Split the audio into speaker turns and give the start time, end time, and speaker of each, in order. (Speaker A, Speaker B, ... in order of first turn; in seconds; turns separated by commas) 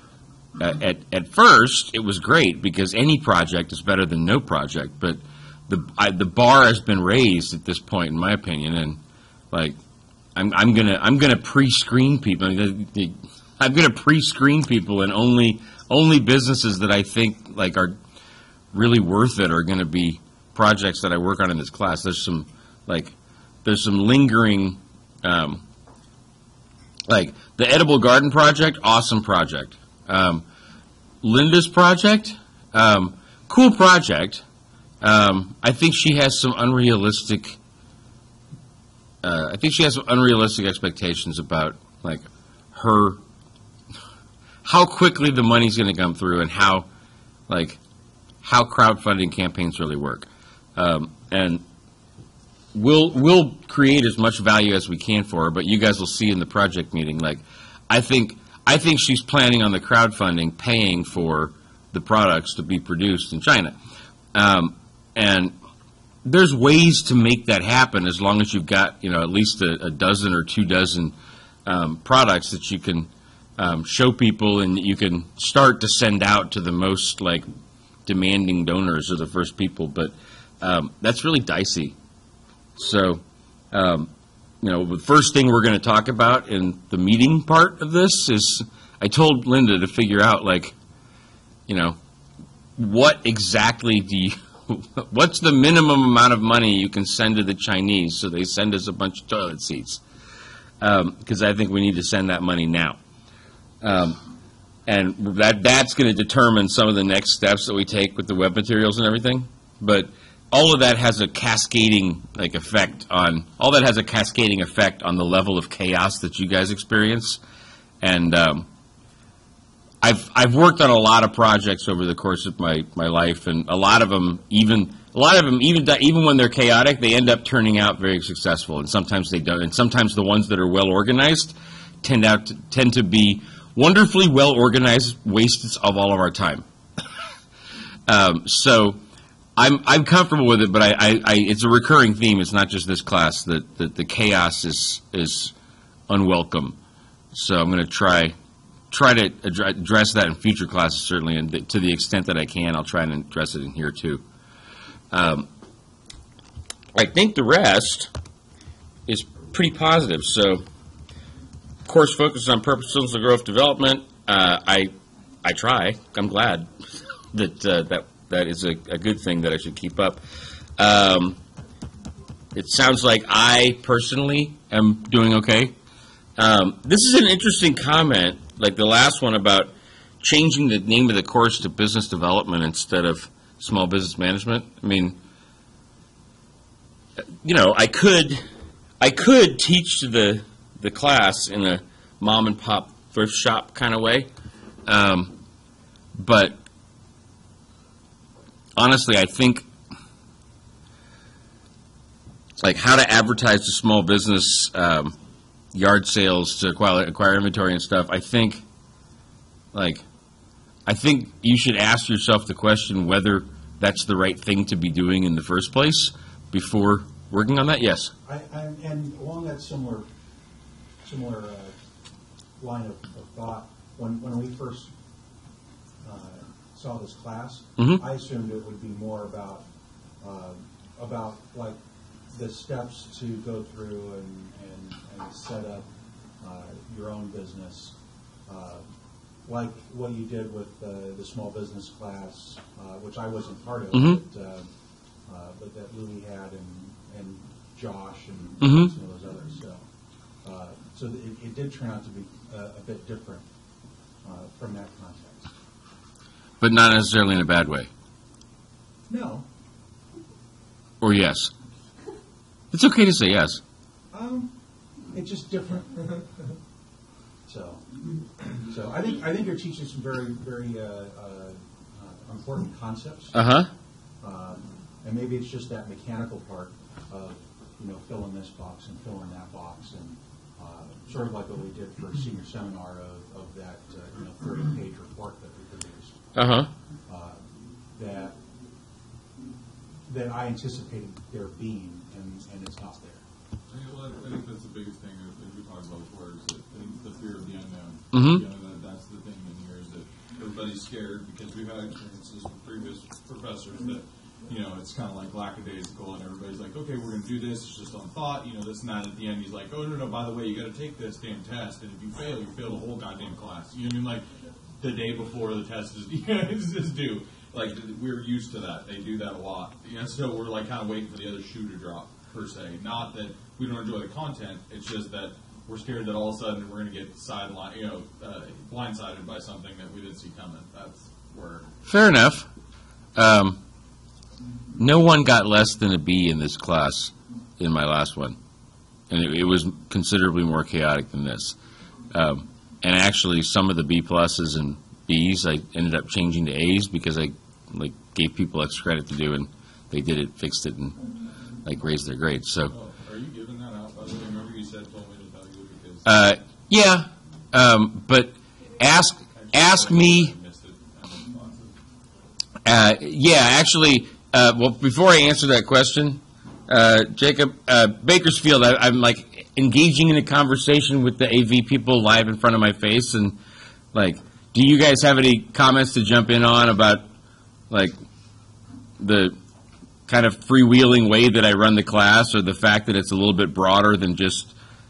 Speaker A: 0.6-9.0, Speaker A: 9.5-9.8, Speaker A: 10.3-17.9, Speaker A: 18.7-25.6, Speaker A: 27.1-30.4, Speaker A: 31.2-34.4, Speaker A: 35.0-37.6, Speaker A: 39.2-43.2, Speaker A: 44.6-46.9, Speaker A: 47.5-47.8, Speaker A: 48.4-51.6, Speaker A: 52.7-63.7, Speaker A: 64.3-65.5, Speaker A: 66.2-71.1, Speaker A: 71.7-77.5, Speaker A: 78.0-81.9, Speaker A: 82.8-84.1, Speaker A: 84.6-90.7, Speaker A: 91.7-92.0, Speaker A: 92.8-100.0, Speaker A: 100.8-103.0, Speaker A: 103.8-104.2, Speaker A: 104.9-117.4, Speaker A: 118.0-118.7, Speaker A: 120.0-136.6, Speaker A: 138.1-139.0, Speaker A: 139.6-145.5, Speaker A: 146.1-146.8, Speaker A: 147.3-148.3, Speaker A: 148.9-154.2, Speaker A: 155.1-155.5, Speaker A: 156.9-158.1, Speaker A: 159.1-160.6, Speaker A: 161.8-166.7, Speaker A: 167.3-170.2, Speaker A: 170.8-171.4, Speaker A: 172.5-175.7, Speaker A: 176.4-185.2, Speaker A: 187.4-188.4, Speaker A: 189.0-194.3, Speaker A: 194.8-195.3, Speaker A: 196.2-196.6, Speaker A: 198.8-199.7, Speaker A: 202.6-205.1, Speaker A: 205.7-208.6, Speaker A: 209.7-210.0, Speaker A: 210.8-218.1, Speaker B: 218.2-220.1, Speaker B: 221.0-221.7, Speaker B: 222.6-224.9, Speaker B: 226.0-229.6, Speaker B: 230.2-231.8, Speaker B: 232.3-235.8, Speaker B: 236.4-237.9, Speaker B: 238.5-238.8, Speaker B: 239.4-244.7, Speaker A: 243.9-244.2, Speaker B: 245.2-249.8, Speaker A: 248.6-248.9, Speaker B: 250.4-253.4, Speaker B: 254.2-255.5, Speaker A: 256.6-257.9, Speaker B: 259.1-259.4, Speaker A: 261.0-261.5, Speaker A: 262.7-263.6, Speaker B: 264.1-264.5, Speaker B: 265.1-266.2, Speaker B: 267.5-267.8, Speaker B: 268.6-273.4, Speaker A: 273.3-273.7, Speaker B: 274.2-286.2, Speaker A: 286.4-286.7, Speaker B: 287.1-288.4, Speaker B: 290.1-293.2, Speaker C: 293.7-314.2, Speaker A: 298.1-298.4, Speaker C: 314.8-331.7, Speaker A: 331.9-332.5, Speaker A: 333.1-333.6, Speaker A: 334.8-338.4, Speaker A: 339.1-341.6, Speaker A: 342.1-351.0, Speaker A: 351.6-352.7, Speaker C: 352.7-356.1, Speaker A: 356.0-360.3, Speaker C: 359.3-361.8, Speaker A: 362.6-373.4, Speaker A: 373.9-377.0, Speaker A: 379.0-379.4, Speaker A: 380.1-384.5